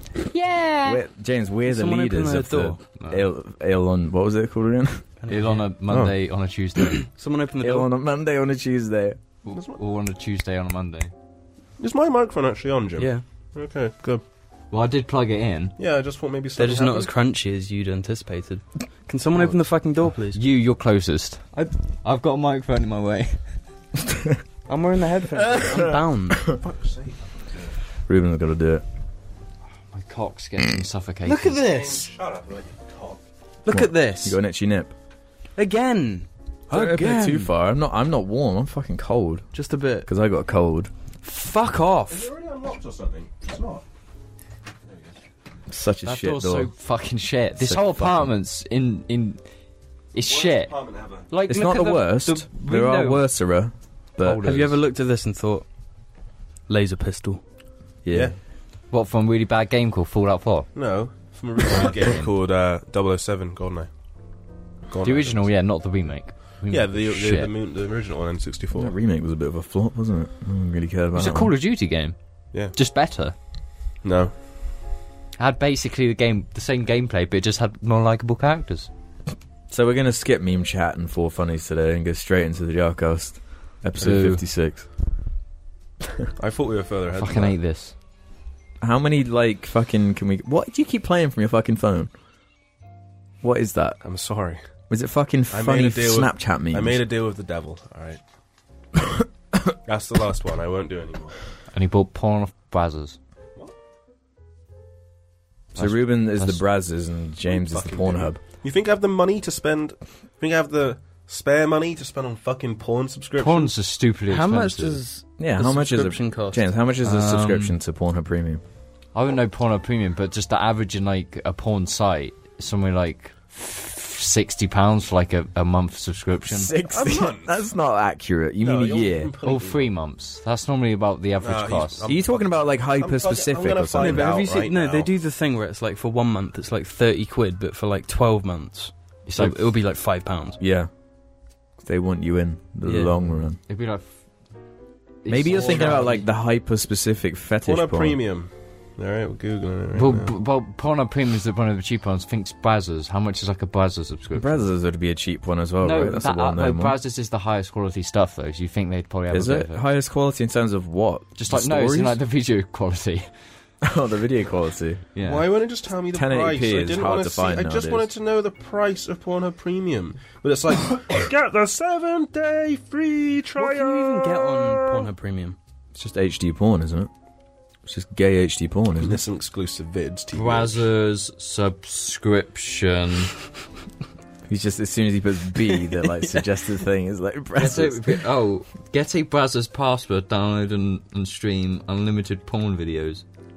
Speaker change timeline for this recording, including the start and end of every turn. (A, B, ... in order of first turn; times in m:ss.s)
0:00.2-0:01.0 A
0:00.8-0:05.0 B
0:01.7-0:02.8 C
0:03.0-0:03.3 A
0:05.2-0:05.7 C
0:05.3-0:07.0 A
0:07.1-0:07.9 C
0:07.6-0:09.2 B
0:09.4-0:11.1 A
0:09.5-0:09.8 D
0:11.8-0:14.2 D
0:13.0-0:13.2 C
0:14.7-0:15.7 A
0:15.8-0:17.1 D
0:16.6-0:20.4 C
0:20.3-0:23.4 A
0:24.7-0:26.5 C
0:26.5-0:27.7 D
0:28.1-0:28.8 B
0:29.9-0:31.6 A
0:31.2-0:32.1 C
0:31.6-0:33.2 D
0:33.6-0:34.4 C
0:33.7-0:34.9 B
0:35.6-0:37.5 C
0:36.7-0:39.5 B
0:39.5-0:40.1 C
0:40.0-0:40.9 B
0:41.2-0:42.3 C
0:42.1-0:43.8 D
0:45.7-0:46.7 B
0:46.0-0:49.4 A
0:47.6-0:48.3 B
0:50.1-0:50.7 A
0:50.2-0:51.3 D
0:51.3-0:53.2 A
0:51.5-0:54.6 B
0:54.2-0:54.8 A
0:54.4-0:55.6 C
0:56.7-0:57.4 C
0:58.0-0:58.3 B
0:58.9-1:00.7 A
1:00.7-1:03.9 D
1:01.7-1:02.3 A
1:04.9-1:05.5 D
1:05.0-1:07.5 A
1:06.7-1:08.9 D
1:08.7-1:11.5 B
1:11.1-1:12.2 A
1:12.7-1:13.3 A
1:14.0-1:14.3 D
1:15.4-1:18.9 A
1:19.7-1:24.9 B
1:24.0-1:24.4 A
1:26.4-1:27.6 D
1:27.2-1:27.9 A
1:28.8-1:32.1 B
1:33.4-1:34.0 B
1:34.0-1:34.6 D
1:34.9-1:37.0 B
1:35.5-1:38.2 D
1:39.8-1:41.4 D
1:41.7-1:43.2 A
1:45.7-1:48.4 B
1:45.8-1:46.6 A
1:47.5-1:53.7 D
1:53.4-1:55.0 A
1:54.3-1:56.7 C
1:55.4-1:58.6 B
1:57.0-1:57.7 A
1:59.1-2:06.7 A
2:06.5-2:09.3 B
2:06.9-2:07.6 D
2:08.6-2:09.9 D
2:09.4-2:12.1 A
2:11.4-2:15.1 D
2:12.0-2:14.3 B
2:14.0-2:20.6 C
2:19.2-2:19.6 A
2:20.6-2:20.9 B
2:21.8-2:23.6 B
2:22.8-2:23.1 C
2:23.7-2:24.1 A
2:25.2-2:26.2 A
2:25.3-2:28.2 B
2:27.6-2:30.3 D
2:29.9-2:34.6 A
2:34.3-2:37.0 B
2:35.8-2:39.8 A
2:39.3-2:42.2 B
2:41.4-2:43.3 A
2:43.8-2:45.0 B
2:45.1-2:45.4 A
2:45.2-2:55.1 D
2:46.1-2:48.1 B
2:53.6-2:55.6 C
2:55.9-2:57.1 B
2:57.8-2:59.2 B
2:59.0-3:00.8 D
3:00.3-3:03.3 A
3:04.5-3:08.2 B
3:07.5-3:13.2 A